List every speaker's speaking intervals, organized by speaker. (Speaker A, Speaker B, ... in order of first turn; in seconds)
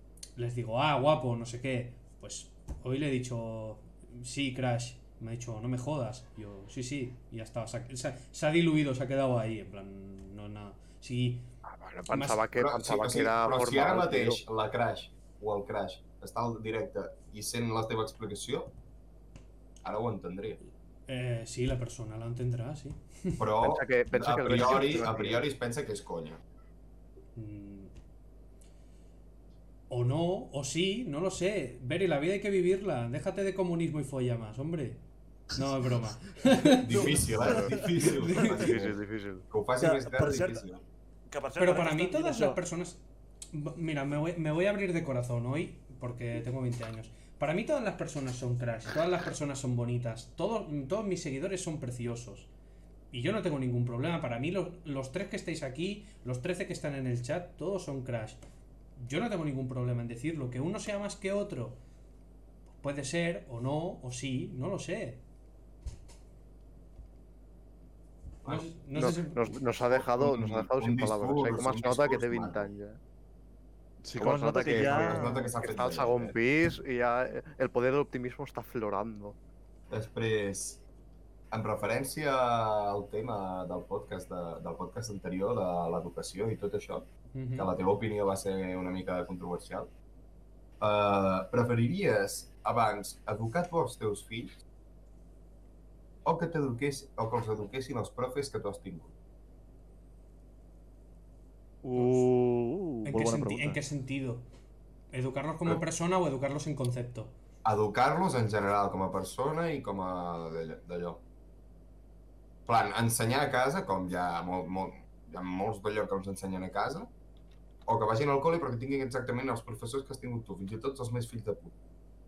Speaker A: 0.3-11.5, 12.1-12.5, 21.1-23.4, 27.3-27.9, 29.9-35.0, 35.5-37.3, 38.0-38.7, 41.6-52.5, 53.1-58.4, 59.0-61.8, 62.8-65.2, 68.4-69.4, 87.3-87.7, 102.0-102.3, 103.0-104.5, 105.1-107.3
Speaker B: 11.6-14.4, 23.6-25.4, 37.4-37.8, 38.5-39.4, 68.9-73.0, 74.2-79.4
Speaker C: 12.5-18.7, 19.8-20.6, 23.4-26.4, 36.7-40.8, 69.9-72.7, 74.5-76.3, 79.9-80.8, 81.5-89.9, 90.8-94.5, 96.2-99.1, 107.6-111.2, 112.7-117.1, 117.8-121.7
Speaker D: 36.9-38.5, 39.8-40.6, 41.3-42.6, 74.0-75.5, 101.8-103.8